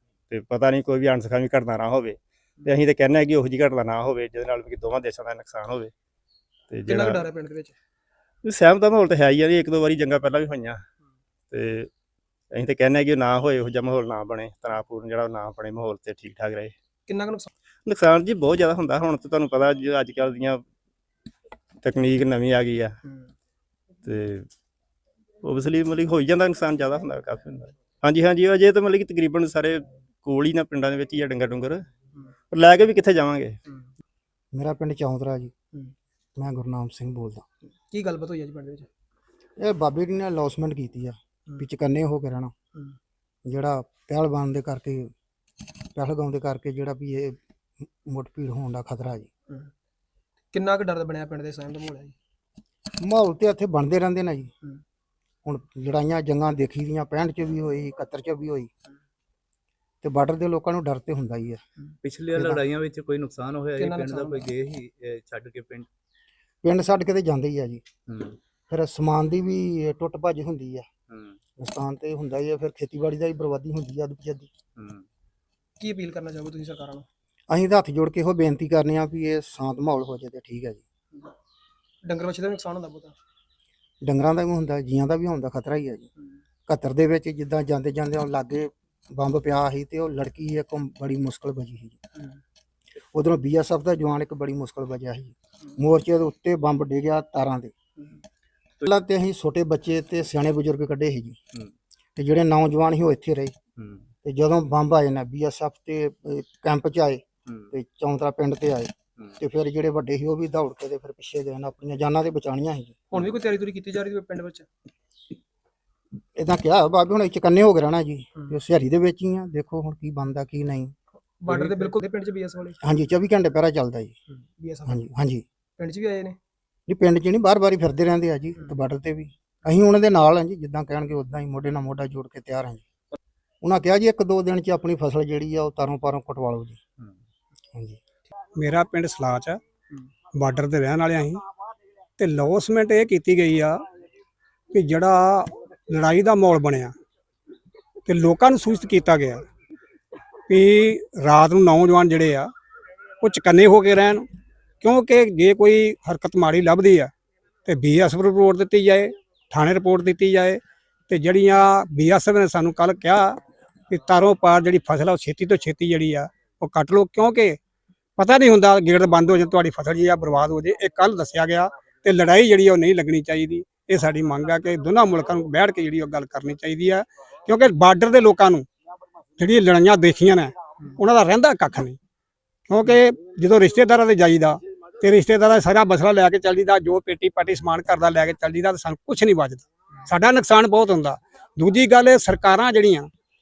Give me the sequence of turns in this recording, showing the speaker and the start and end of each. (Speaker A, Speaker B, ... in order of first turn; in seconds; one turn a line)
Speaker A: 0.3-5.9
Speaker A: 6.7-7.3
Speaker B: 6.9-7.8
Speaker A: 8.4-10.8
Speaker A: 11.5-11.9
Speaker A: 12.5-16.7
Speaker B: 17.1-17.5
Speaker A: 17.9-20.6
Speaker A: 21.8-23.0
Speaker A: 24.0-24.5
Speaker A: 25.4-31.9
Speaker A: 32.5-33.6
Speaker C: 34.5-35.5
Speaker C: 36.4-37.5
Speaker B: 37.9-38.9
Speaker C: 39.6-42.5
Speaker C: 43.5-45.1
Speaker C: 46.0-47.4
Speaker C: 48.1-49.3
Speaker B: 50.5-52.1
Speaker C: 53.0-54.5
Speaker C: 55.5-58.7
Speaker C: 60.0-61.6
Speaker D: 62.0-65.9
Speaker C: 62.3-62.6
Speaker B: 63.8-64.4
Speaker C: 66.6-67.8
Speaker D: 68.1-68.4
Speaker C: 68.7-70.9
Speaker D: 71.1-71.4
Speaker C: 71.6-74.5
Speaker D: 74.8-75.1
Speaker B: 75.8-77.1
Speaker C: 77.5-80.8
Speaker B: 82.0-83.2
Speaker C: 84.0-86.1
Speaker C: 86.7-92.0
Speaker C: 93.1-97.7
Speaker C: 98.8-101.4
Speaker C: 102.2-103.5
Speaker D: 103.8-104.1
Speaker C: 104.2-113.1
Speaker D: 107.5-107.7
Speaker B: 113.1-114.7
Speaker C: 116.4-120.9
Speaker B: 121.4-122.8
Speaker D: 121.5-122.0
Speaker C: 122.8-124.2
Speaker B: 124.3-125.1
Speaker C: 124.9-125.5
Speaker B: 125.8-126.4
Speaker C: 126.9-132.8
Speaker C: 133.6-136.8
Speaker C: 137.7-138.0
Speaker E: 138.6-139.6
Speaker E: 140.3-141.4
Speaker E: 142.2-143.8
Speaker E: 144.7-146.9
Speaker E: 148.1-149.5
Speaker E: 150.5-152.5
Speaker E: 153.2-154.3
Speaker E: 154.8-157.1
Speaker E: 157.7-163.4
Speaker E: 163.9-167.6
Speaker E: 168.2-178.7
Speaker E: 179.4-182.0
Speaker E: 182.7-193.1